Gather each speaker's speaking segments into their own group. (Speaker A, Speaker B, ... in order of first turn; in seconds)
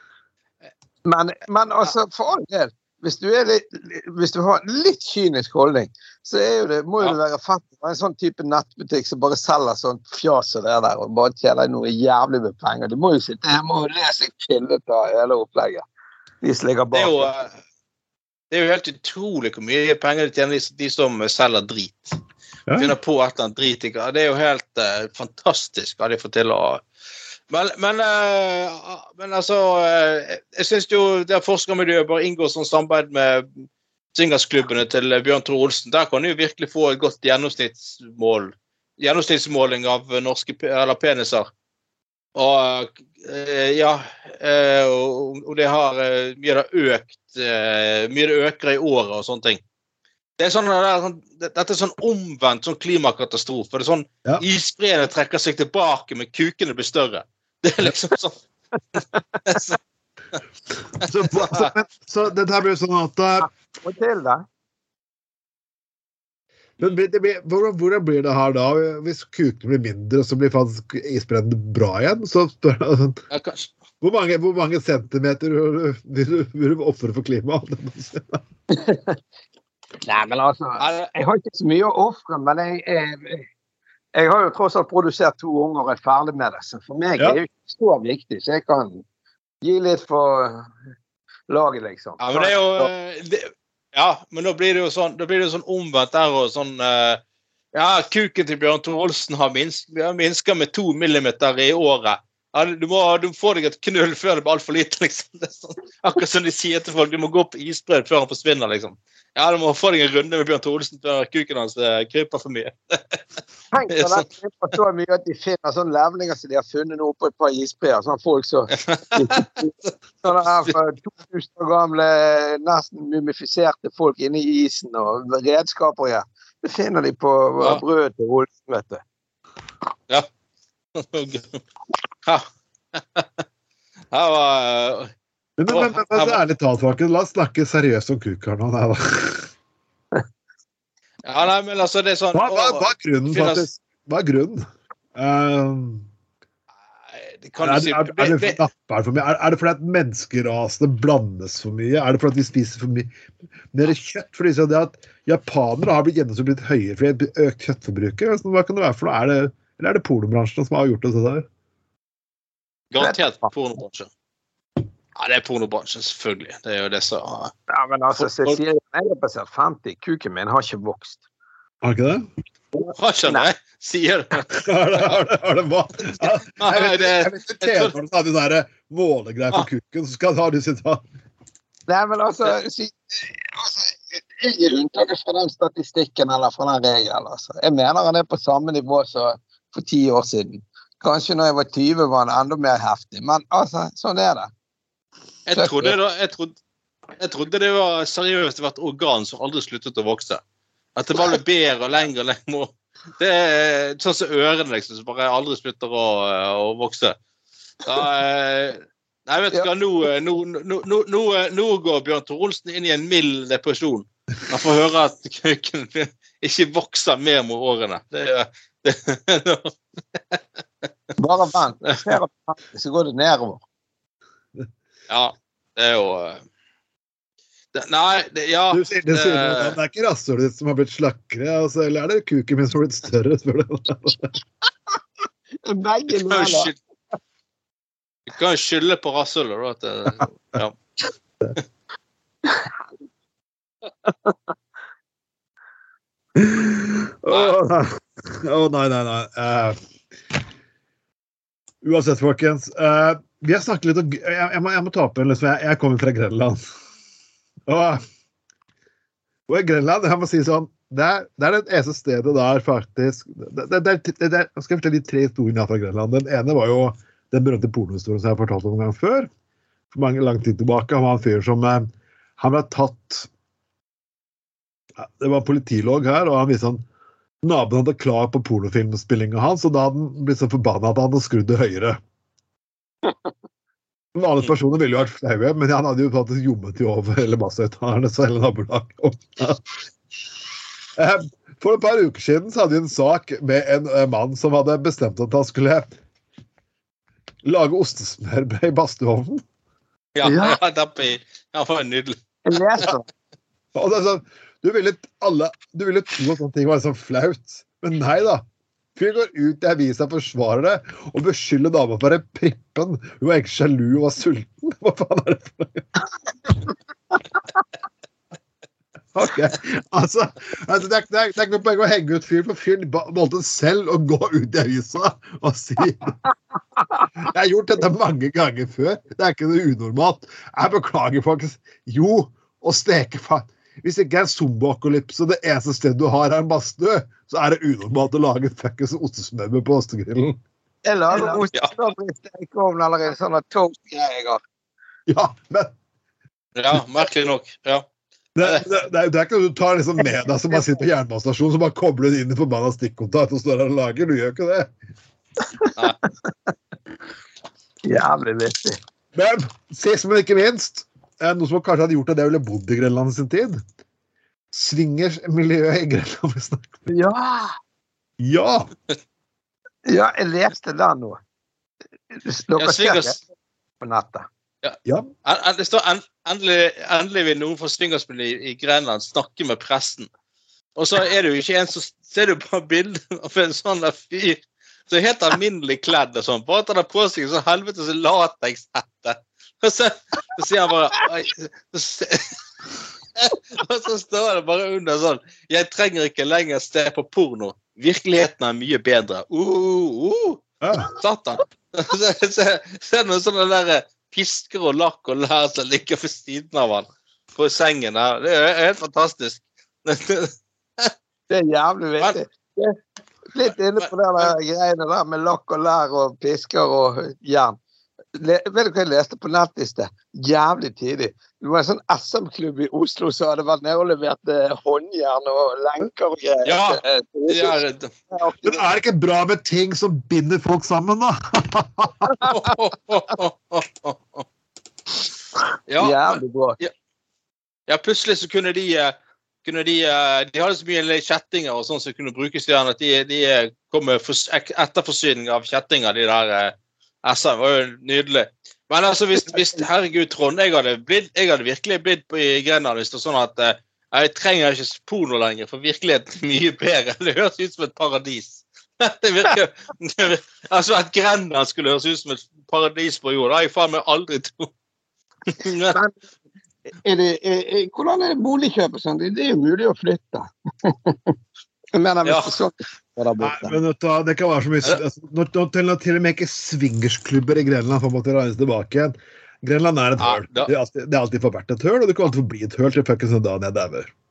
Speaker A: 1.1-15.8, 16.4-17.3, 63.4-64.4, 78.7-79.2, 80.0-83.5, 84.1-89.0, 89.6-90.7, 91.5-92.9, 113.7-129.0, 163.0-163.5, 167.7-171.2, 172.7-173.5, 181.9-194.5, 195.6-195.9, 221.2-223.6, 235.6-236.7, 244.1-244.3, 300.2-300.6, 302.4-303.1, 340.8-344.4, 357.8-358.8, 366.9-367.6, 369.9-371.2, 372.1-373.2, 373.8-374.3, 411.3-412.8, 413.3-417.6, 418.1-428.6, 435.8-436.6, 465.7-465.9, 466.8-471.1, 471.7-473.6
Speaker B: 16.9-17.5, 18.5-22.2, 22.8-26.8, 27.5-41.5, 42.3-49.6, 50.4-58.4, 59.5-59.8, 61.4-61.7, 73.3-73.7, 80.8-81.1, 92.2-97.2, 97.7-113.2, 113.9-114.3, 118.7-119.9, 130.9-131.6, 132.2-133.3, 134.1-135.1, 135.7-136.4, 141.2-143.7, 147.1-148.6, 162.9-164.1, 165.2-167.5, 168.2-168.6, 172.9-175.1, 176.6-177.9, 195.5-196.6, 197.2-200.4, 200.9-207.2, 207.8-220.4, 221.9-222.2, 225.1-226.4, 227.7-229.8, 236.1-236.8, 238.3-240.7, 300.1-302.1, 341.1-341.7, 346.6-347.9, 372.6-373.2, 374.6-380.1, 380.8-392.4, 393.2-410.9, 413.4-413.9, 426.4-427.9, 432.2-434.2, 435.7-436.7, 437.7-464.5, 465.3-465.8, 472.1-472.3, 480.0-480.5
Speaker C: 22.7-22.9, 61.0-63.5, 66.8-73.2, 74.0-78.4, 135.6-139.5, 142.3-144.6, 145.2-146.1, 147.6-153.1, 153.7-161.4, 171.8-172.3, 174.5-181.0, 228.7-234.3, 246.4-249.8, 251.8-256.6, 257.7-258.0, 259.5-269.3, 269.9-273.3, 275.0-276.8, 277.4-282.0, 284.1-289.7, 290.9-295.9, 297.4-299.4, 303.7-308.4, 308.9-315.9, 319.1-326.2, 327.2-340.4, 345.1-345.7, 348.4-354.7, 359.1-363.6, 364.5-366.9, 368.2-368.7, 374.8-375.1, 400.6-400.9, 428.4-432.1, 473.2-483.9